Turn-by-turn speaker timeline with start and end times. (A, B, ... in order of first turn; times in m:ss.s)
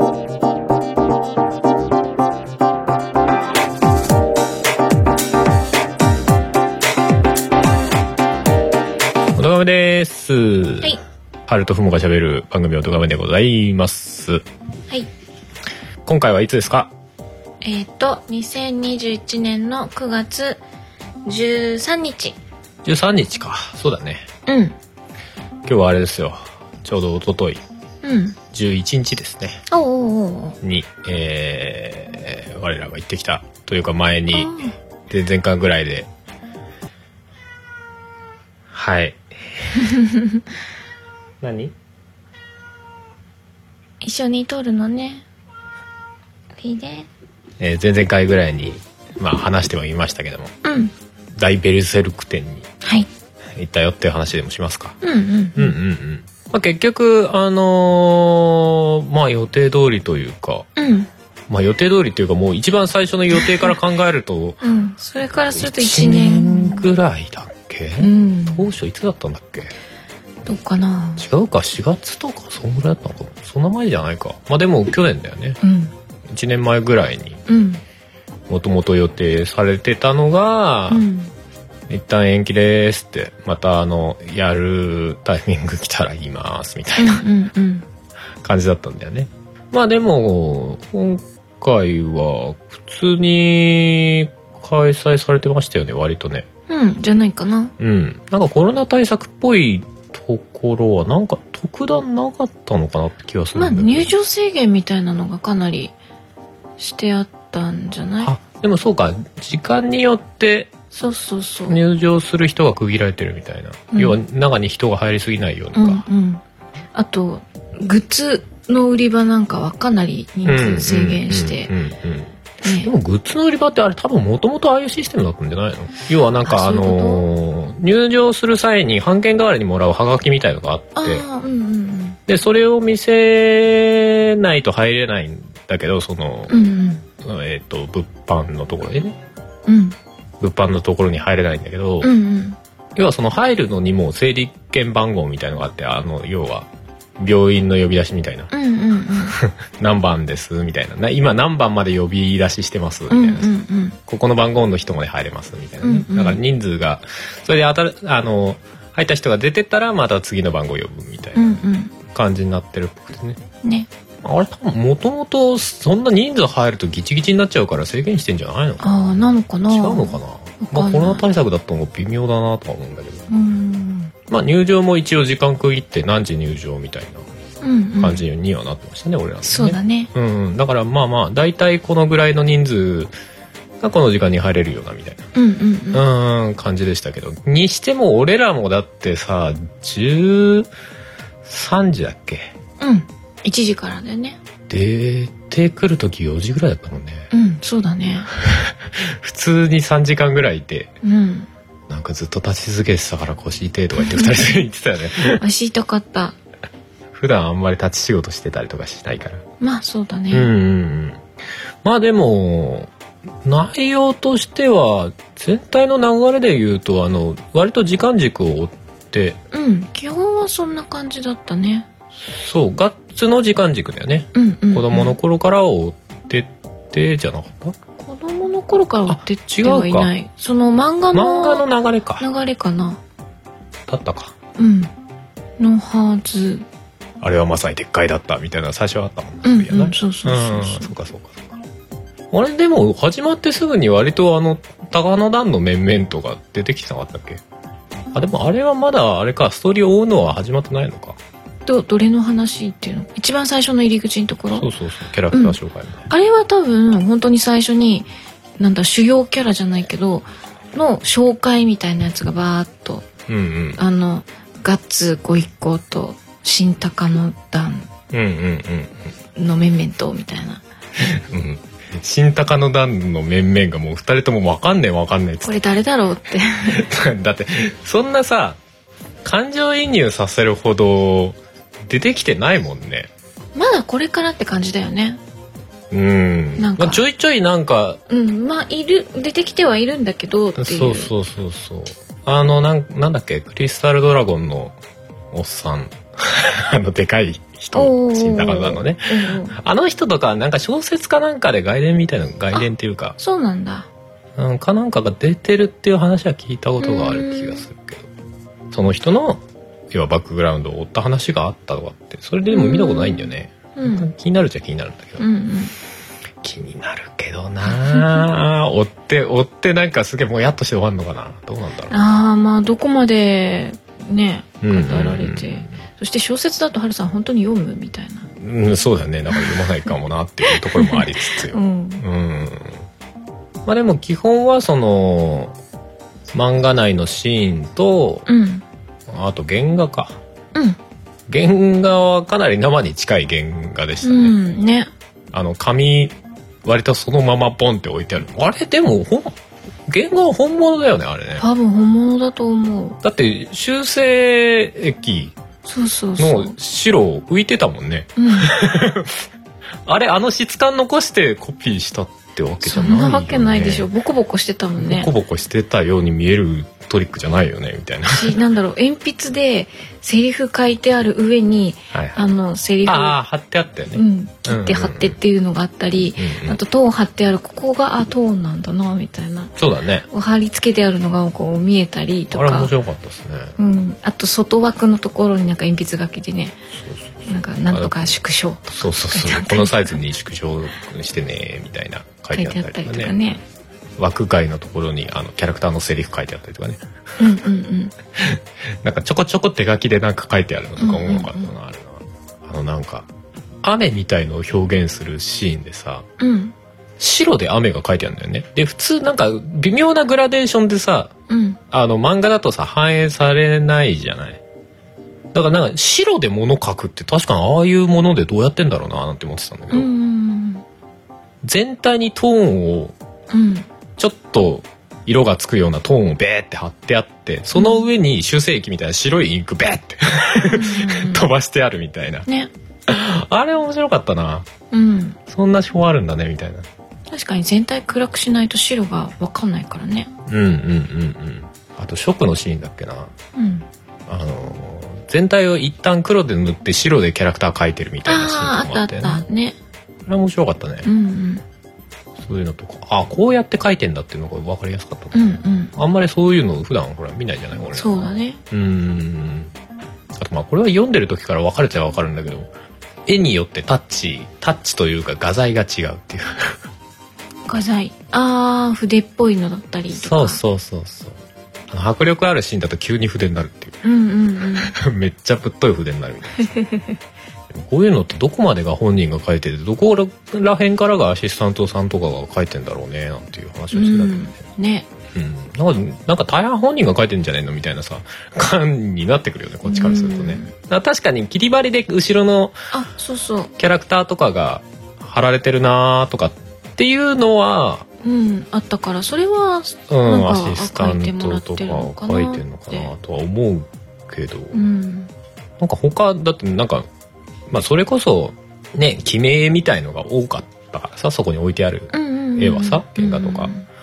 0:09.4-0:11.0 A
0:11.5-0:14.4 A
0:16.0-0:16.9 A
0:17.6-0:20.6 B
0:21.2-0:22.4 B
0:22.8-0:24.3 A
0:24.5-0:24.8 B
0:25.6-0:27.6 A
0:28.0-0:28.4 B
0:28.5-0:29.6 A
0:29.7-0:30.6 B
0:30.6-0:36.1 A
0:34.3-0:34.8 B
0:38.7-0:39.8 A
0:40.0-0:40.3 B
0:41.4-0:41.7 A
0:44.0-0:45.2 B
0:46.6-0:47.1 B
0:47.6-0:50.5 A
0:50.6-0:50.9 B
0:51.4-0:52.7 A
0:52.8-0:53.1 B
0:53.6-0:55.0 A
0:55.0-0:55.8 B
0:55.6-1:00.7 A
1:00.8-1:01.1 B
1:01.5-1:04.6 A
1:04.6-1:06.9 B
1:05.5-1:09.7 A
1:08.0-1:08.7 B
1:10.5-1:11.2 B
1:11.2-1:15.6 A
1:15.6-1:15.9 B
1:16.3-1:17.4 A
1:17.5-1:17.8 B
1:18.5-1:21.1 A
1:20.9-1:21.3 B
1:21.9-1:27.2 A
1:27.0-1:27.9 B
1:28.4-1:36.5 A
1:36.7-1:37.7 B
1:37.8-1:44.1 A
1:43.6-1:45.9 B
1:46.8-1:48.3 B
1:48.2-1:50.7 A
1:50.9-1:51.8 B
1:51.7-1:56.0 A
1:53.9-1:54.2 B
1:55.8-1:56.4 B
1:56.9-2:01.7 B
2:00.4-2:11.2 A
2:02.6-2:02.9 B
2:06.4-2:07.3 B
2:11.0-2:12.2 B
2:12.3-2:16.6 A
2:16.5-2:17.0 B
2:17.2-2:19.2 A
2:19.7-2:20.0 B
2:20.4-2:22.1 A
2:22.0-2:22.6 B
2:23.0-2:26.7 A
2:27.2-2:28.5 A
2:28.5-2:29.4 B
2:29.2-2:33.5 A
2:33.1-2:34.0 B
2:34.1-2:43.4 A
2:35.8-2:36.4 B
2:41.4-2:41.9 B
2:43.6-2:43.9 B
2:44.2-2:53.3 A
2:48.8-2:51.2 B
2:53.3-2:54.1 B
2:54.3-2:57.2 A
2:57.6-2:58.2 B
2:58.0-3:03.1 A
2:59.4-3:00.1 B
3:03.8-3:05.3 A
3:05.3-3:06.0 B
3:05.9-3:10.7 A
3:11.5-3:12.5 A
3:12.8-3:14.4 B
3:14.7-3:17.3 A
3:17.3-3:18.3 B
3:18.4-3:20.9 A
3:21.0-3:21.5 B
3:21.9-3:25.4 A
3:24.0-3:24.5 B
3:25.3-3:26.4 B
3:27.1-3:29.4 A
3:29.6-3:30.5 B
3:30.3-3:31.2 A
3:31.8-3:32.9 A
3:33.4-3:39.4 A
3:39.5-3:41.9 B
3:42.3-3:47.8 A
3:44.3-3:45.2 B
3:48.0-3:51.7 B
3:49.1-3:50.1 A
3:51.1-3:52.3 A
3:52.2-3:53.0 B
3:53.9-3:54.4 A
3:54.6-3:54.9 B
3:55.6-3:56.7 B
3:57.2-4:01.6 A
3:59.4-4:00.9 B
4:02.3-4:07.4 A
4:08.1-4:11.2 A
4:11.7-4:14.7 B
4:14.5-4:16.1 A
4:15.3-4:15.6 B
4:16.1-4:23.1 B
4:23.3-4:23.8 A
4:23.8-4:27.9 B
4:28.1-4:29.0 A
4:29.4-4:30.6 B
4:31.1-4:35.6 A
4:35.4-4:36.9 B
4:36.7-4:38.6 A
4:39.2-4:43.1 A
4:43.6-4:45.2 B
4:45.9-4:48.0 A
4:46.6-4:47.0 B
4:48.1-4:51.1 B
4:50.6-4:54.8 A
4:55.3-5:03.2 A
4:57.7-4:59.6 B
5:03.2-5:03.9 B
5:04.4-5:08.1 A
5:06.8-5:07.6 B
5:08.7-5:15.3 A
5:12.5-5:14.1 B
5:15.2-5:15.8 B
5:16.4-5:22.0 A
5:17.7-5:18.3 B
5:21.9-5:28.3 B
5:24.6-5:25.8 A
5:28.4-5:32.8 A
5:30.5-5:32.0 B
5:33.7-5:35.6 A
5:36.3-5:38.3 A
5:38.3-5:38.6 B
5:39.1-5:40.2 A
5:40.5-5:40.8 B
5:41.3-5:44.4 A
5:44.0-5:44.9 B
5:45.3-5:49.4 A
5:49.9-5:51.4 A
5:51.4-5:53.0 B
5:53.0-5:55.4 A
5:55.6-5:56.6 B
5:56.2-5:59.2 A
5:58.2-5:58.5 B
5:59.9-6:03.9 A
6:02.6-6:05.1 B
6:04.8-6:08.4 A
6:08.1-6:13.2 B
6:11.9-6:12.2 A
6:12.8-6:15.2 A
6:13.9-6:19.5 B
6:16.2-6:16.6 A
6:19.6-6:20.1 A
6:20.1-6:22.7 B
6:22.3-6:23.6 A
6:23.6-6:26.6 B
6:26.8-6:27.1 A
6:27.2-6:30.0 B
6:27.7-6:28.2 A
6:28.7-6:33.1 A
6:32.3-6:33.4 B
6:34.0-6:36.8 A
6:37.2-6:37.9 B
6:38.2-6:43.1 A
6:40.8-6:41.5 B
6:43.6-6:46.1 A
6:46.2-6:46.5 B
6:47.0-6:51.1 A
6:51.3-6:51.6 B
6:51.7-6:54.4 A
6:55.3-6:59.9 A
6:59.7-7:00.6 B
7:01.4-7:03.0 A
7:03.3-7:03.7 B
7:04.0-7:12.3 A
7:07.6-7:07.8 B
7:10.4-7:11.3 B
7:12.9-7:14.5 A
7:14.7-7:15.2 B
7:15.3-7:16.7 A
7:17.1-7:20.1 B
7:20.3-7:23.1 A
7:23.4-7:23.7 B
7:24.1-7:29.2 A
7:28.0-7:29.6 B
7:30.1-7:30.9 A
7:30.8-7:31.4 B
7:32.2-7:39.5 A
7:35.1-7:35.7 B
7:37.7-7:38.4 B
7:40.2-7:42.5 A
7:43.1-7:46.6 A
7:47.5-7:50.4 B
7:49.9-7:51.2 A
7:51.7-7:53.8 A
7:53.8-7:54.8 B
7:54.6-7:56.5 A
7:56.4-7:57.0 B
7:57.5-8:04.4 A
8:03.7-8:04.9 B
8:05.1-8:12.6 A
8:09.6-8:10.5 B
8:12.7-8:13.5 B
8:13.6-8:17.9 A
8:18.0-8:22.9 B
8:19.9-8:24.6 A
8:24.5-8:25.1 B
8:25.6-8:26.9 A
8:27.5-8:33.5 A
8:31.9-8:33.6 B